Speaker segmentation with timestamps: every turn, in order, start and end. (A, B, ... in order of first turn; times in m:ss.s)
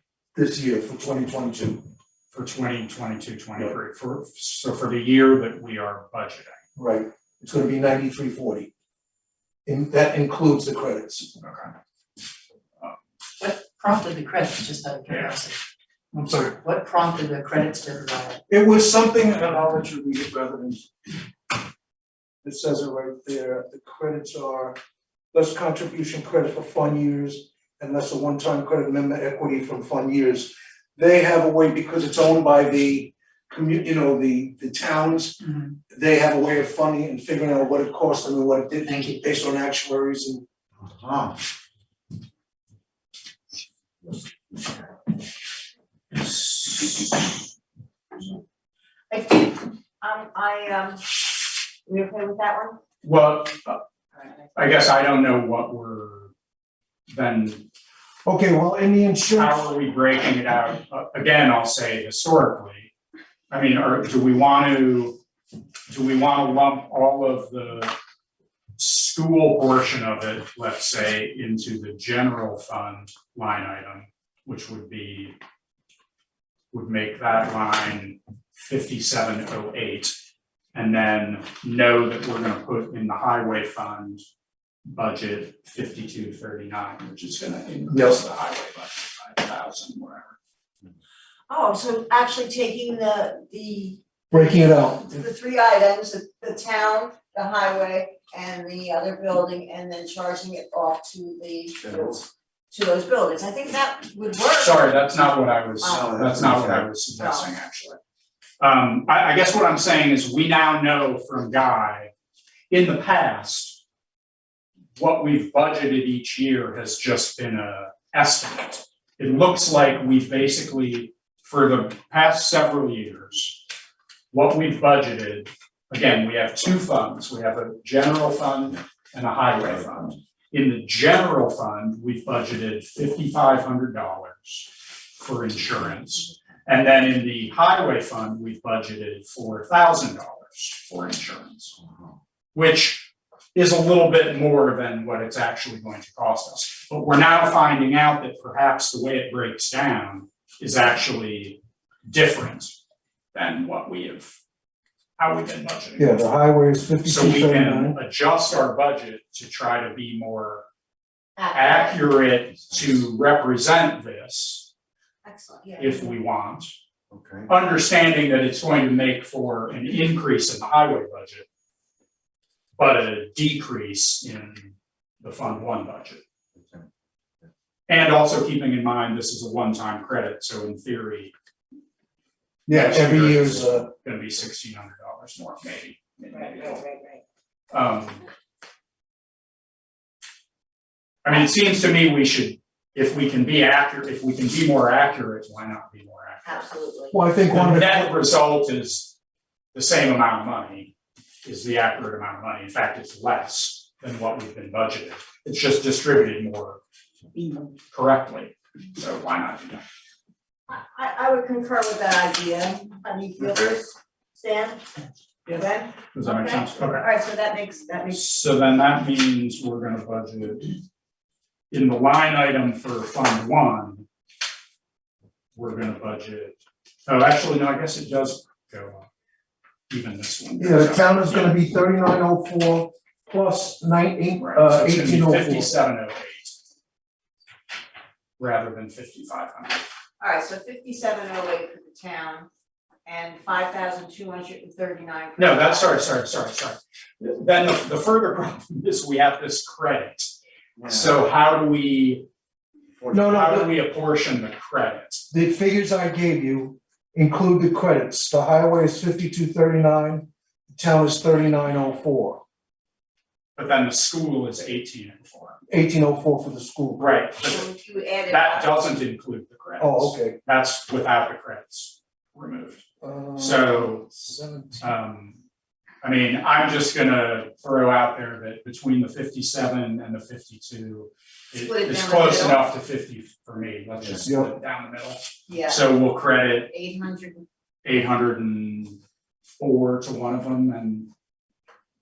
0:00.3-0:01.8 A
0:02.3-0:06.6 B
0:06.8-0:08.7 A
0:09.6-0:11.3 A
0:11.4-0:11.7 B
0:13.4-0:15.6 C
0:16.1-0:16.5 A
0:16.3-0:18.4 C
0:18.5-0:21.2 A
0:22.4-0:24.8 A
0:25.3-0:35.4 A
0:35.9-0:40.4 A
0:38.9-0:39.2 C
0:40.8-0:41.4 D
0:49.1-0:52.8 E
0:53.0-0:53.8 B
0:54.5-0:56.3 B
0:57.1-0:57.6 B
0:58.2-0:59.7 A
0:59.3-1:02.9 B
1:03.5-1:05.2 B
1:05.9-1:07.9 B
1:08.8-1:15.4 B
1:16.7-1:20.1 B
1:20.7-1:24.2 B
1:24.8-1:30.3 B
1:27.9-1:28.2 A
1:31.5-1:34.0 E
1:34.3-1:35.1 A
1:35.0-1:45.0 E
1:44.5-1:48.0 B
1:45.8-1:46.2 E
1:45.9-1:46.9 D
1:47.2-1:47.5 E
1:48.6-1:52.1 B
1:52.7-1:53.8 B
1:55.0-2:03.6 B
2:04.3-2:21.7 B
2:22.5-2:32.8 B
2:33.3-2:34.4 B
2:35.2-2:36.3 B
2:36.0-2:38.0 A
2:37.0-2:40.6 B
2:41.4-2:42.1 E
2:41.5-2:44.7 B
2:45.2-2:46.1 E
2:45.8-2:46.8 B
2:47.1-2:47.5 D
2:47.5-2:51.4 B
2:52.8-2:56.2 B
2:57.9-3:01.3 B
3:02.7-3:03.9 A
3:02.7-3:06.8 B
3:06.3-3:07.2 E
3:07.7-3:08.2 B
3:11.2-3:16.7 B
3:16.4-3:17.2 E
3:17.1-3:18.2 A
3:17.5-3:19.1 B
3:19.7-3:20.9 B
3:21.4-3:26.8 B
3:27.9-3:29.8 B
3:30.7-3:34.8 E
3:35.4-3:37.1 B
3:35.5-3:38.3 E
3:38.1-3:40.8 B
3:41.7-3:44.0 B
3:45.5-3:49.1 B
3:49.9-3:51.6 B
3:50.6-3:55.7 A
3:54.4-3:56.6 B
3:58.4-3:59.8 B
4:00.2-4:02.5 E
4:03.0-4:06.0 E
4:05.4-4:12.2 B
4:10.8-4:11.1 D
4:13.0-4:13.2 D
4:13.1-4:13.7 A
4:13.1-4:15.2 B
4:15.3-4:22.4 A
4:23.6-4:25.6 B
4:25.7-4:27.2 A
4:27.0-4:27.7 B
4:27.4-4:28.7 E
4:28.2-4:32.8 B
4:29.8-4:30.4 A
4:33.0-4:34.9 A
4:33.4-4:34.1 B
4:34.8-4:35.4 B
4:36.0-4:46.7 B
4:41.5-4:42.6 E
4:44.2-4:44.5 A
4:45.5-4:45.9 E
4:46.7-4:47.4 E
4:47.8-4:49.0 B
4:49.6-4:51.1 B